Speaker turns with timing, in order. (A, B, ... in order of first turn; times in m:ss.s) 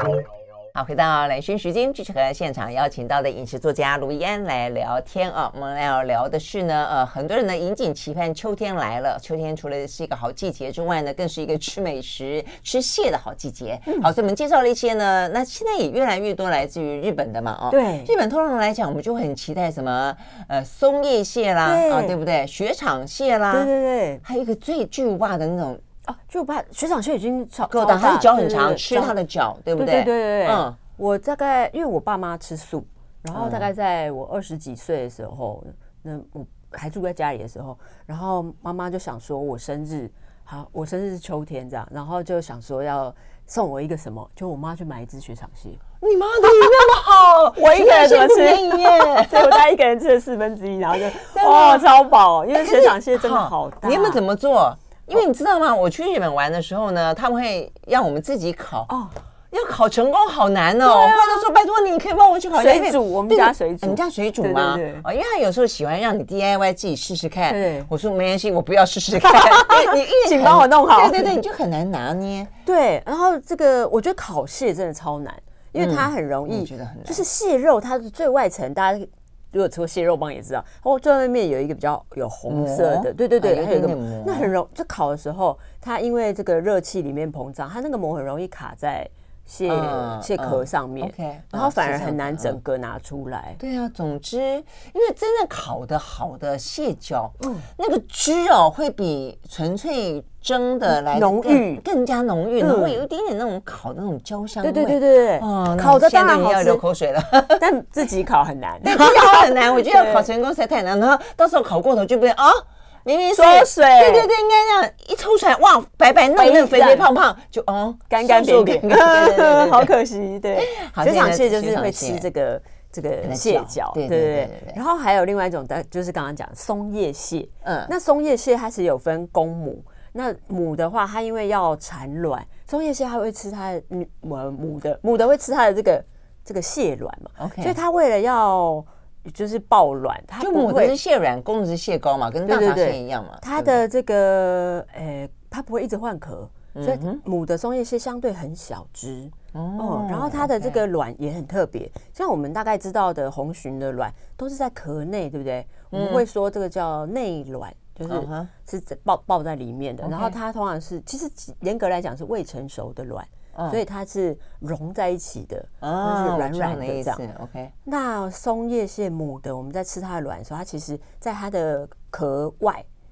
0:00.7-0:23.7 A
0:17.7-0:18.1 B
0:21.6-0:22.2 B
0:23.5-0:24.2 B
0:24.2-0:25.8 A
0:26.1-0:29.1 B
0:27.7-0:30.8 A
0:29.7-0:45.8 B
0:33.3-0:33.7 A
0:46.0-0:49.6 A
0:47.6-0:54.2 B
0:51.1-0:51.9 A
0:52.5-0:58.9 A
0:58.9-0:59.1 B
0:59.5-1:12.5 A
1:00.8-1:01.4 B
1:02.6-1:05.0 B
1:07.5-1:07.9 B
1:09.2-1:11.4 B
1:12.6-1:33.6 B
1:15.8-1:17.2 A
1:22.5-1:24.5 A
1:29.7-1:32.6 A
1:33.6-1:47.6 A
1:37.4-1:37.6 B
1:40.9-1:41.8 B
1:42.6-1:43.0 B
1:44.6-1:46.8 B
1:47.6-1:50.3 B
1:48.8-1:59.9 A
1:53.3-1:54.3 B
1:56.4-1:57.1 B
1:58.1-2:21.0 B
2:00.5-2:02.3 A
2:03.2-2:04.8 A
2:07.6-2:07.9 A
2:17.4-2:17.8 A
2:20.4-2:23.8 A
2:22.5-2:47.2 B
2:26.7-2:27.2 A
2:29.5-2:30.8 A
2:35.9-2:36.2 A
2:38.1-2:38.5 A
2:40.0-2:40.3 A
2:43.5-2:43.8 A
2:45.8-2:47.7 A
2:47.8-2:52.8 B